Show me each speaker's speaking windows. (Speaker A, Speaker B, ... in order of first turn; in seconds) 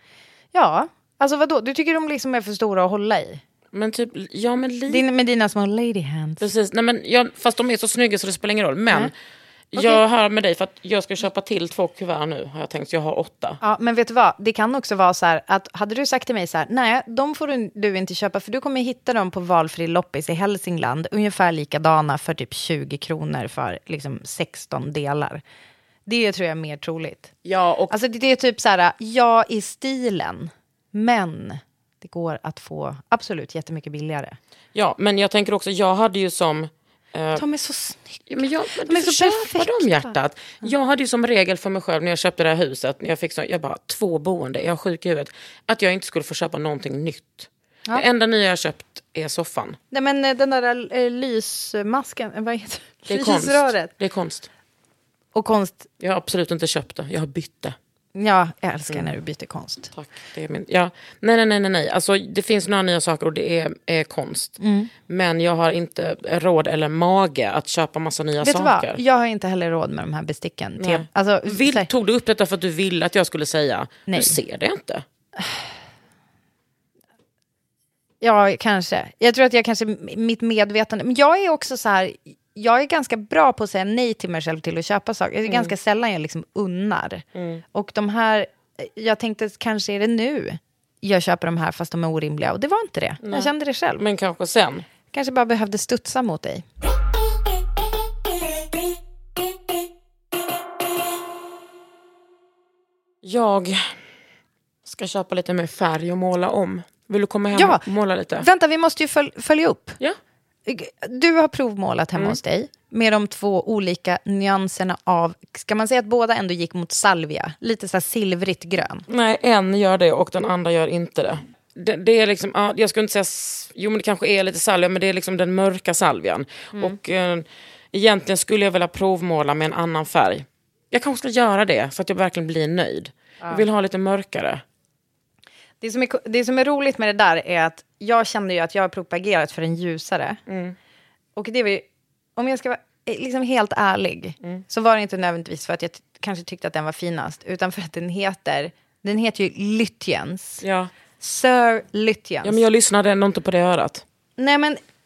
Speaker A: 0.5-3.4, 4.9-6.5, 13.6-25.4, 26.1-27.3, 27.9-34.4, 37.4-38.3, 38.8-40.1, 49.9-53.9, 55.3-55.9, 58.1-59.9, 64.6-64.9, 68.4-71.9, 74.1-74.4, 78.2-94.0, 95.1-96.6, 107.5-107.8, 108.4-110.0, 110.7-119.0, 135.8-140.4, 141.3-141.8, 142.3-150.6, 151.2-152.6, 154.4-154.8
Speaker B: 3.7-5.0, 6.4-9.1, 9.7-13.6, 27.4-27.9, 34.7-37.4, 38.3-49.8, 53.1-54.5, 56.0-57.8, 59.9-69.0, 70.8-75.0, 85.5-85.7, 87.3-87.6, 93.2-94.8, 103.2-103.9, 104.8-108.5, 119.1-134.6, 140.5-140.8, 150.6-150.9, 152.4-154.0